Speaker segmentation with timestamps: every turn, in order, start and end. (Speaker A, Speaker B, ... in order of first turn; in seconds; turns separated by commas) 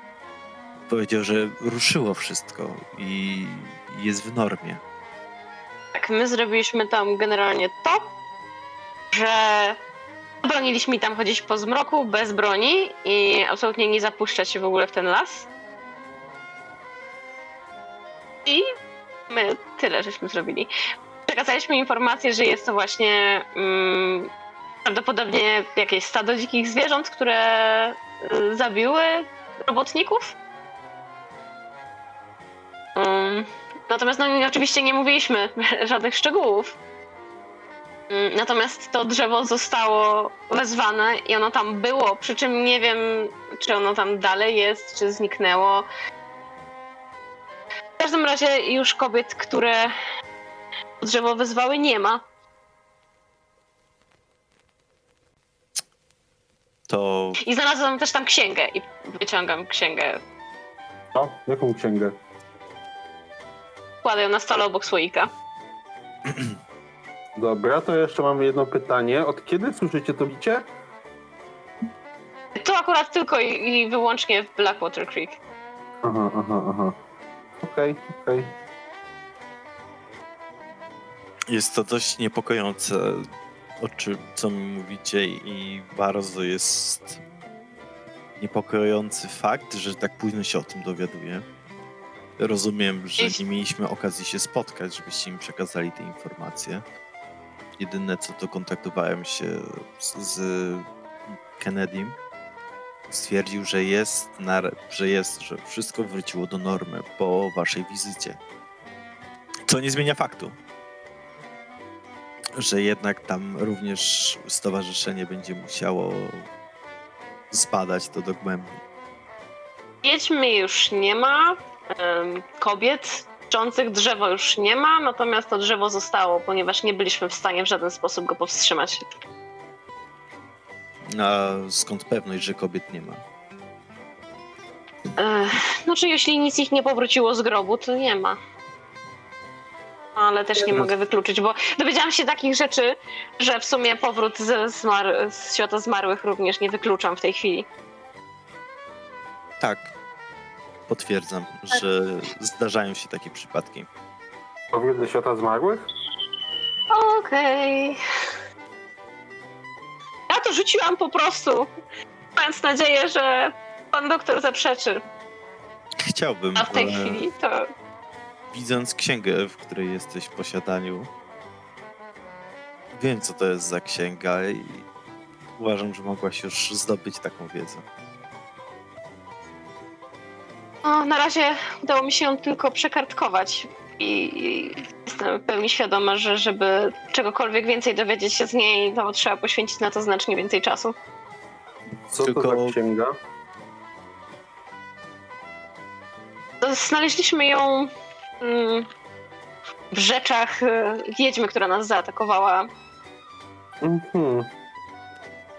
Speaker A: 0.9-4.8, Speaker B: 5.9-8.1, Speaker B: 9.1-9.8, Speaker B: 10.4-15.5, Speaker B: 19.3-20.7, Speaker B: 21.3-24.3, Speaker B: 24.8-30.4, Speaker B: 33.0-36.8, Speaker B: 38.1-45.9, Speaker B: 48.0-49.9, Speaker B: 51.0-52.2, Speaker A: 56.9-57.4, Speaker B: 57.4-60.2, Speaker C: 61.1-62.1, Speaker B: 64.0-65.3, Speaker C: 67.4-70.6, Speaker B: 72.6-75.4, Speaker C: 76.0-76.9, Speaker C: 77.6-78.5, Speaker A: 81.5-83.3, Speaker A: 83.8-87.2, Speaker A: 88.4-91.4, Speaker A: 92.4-96.8, Speaker A: 97.8-100.9, Speaker A: 101.6-102.2, Speaker A: 103.1-108.4, Speaker A: 109.7-110.5, Speaker A: 112.5-116.5, Speaker A: 117.5-118.8, Speaker B: 120.0-129.1, Speaker A: 131.1-133.2, Speaker B: 135.2-138.4, Speaker B: 140.2-147.7, Speaker A: 149.6-149.9, Speaker A: 150.9-153.9, Speaker C: 154.7-155.8, Speaker B: 156.9-158.0, Speaker B: 160.3-161.7, Speaker B: 162.3-165.0, Speaker A: 166.0-167.2, Speaker B: 166.5-167.7, Speaker A: 168.5-171.1, Speaker A: 172.9-174.8, Speaker A: 175.6-177.8, Speaker B: 180.8-190.9, Speaker C: 192.1-193.1, Speaker A: 192.2-192.8, Speaker B: 196.6-197.9, Speaker B: 198.4-198.9, Speaker B: 199.9-202.7, Speaker C: 203.8-204.5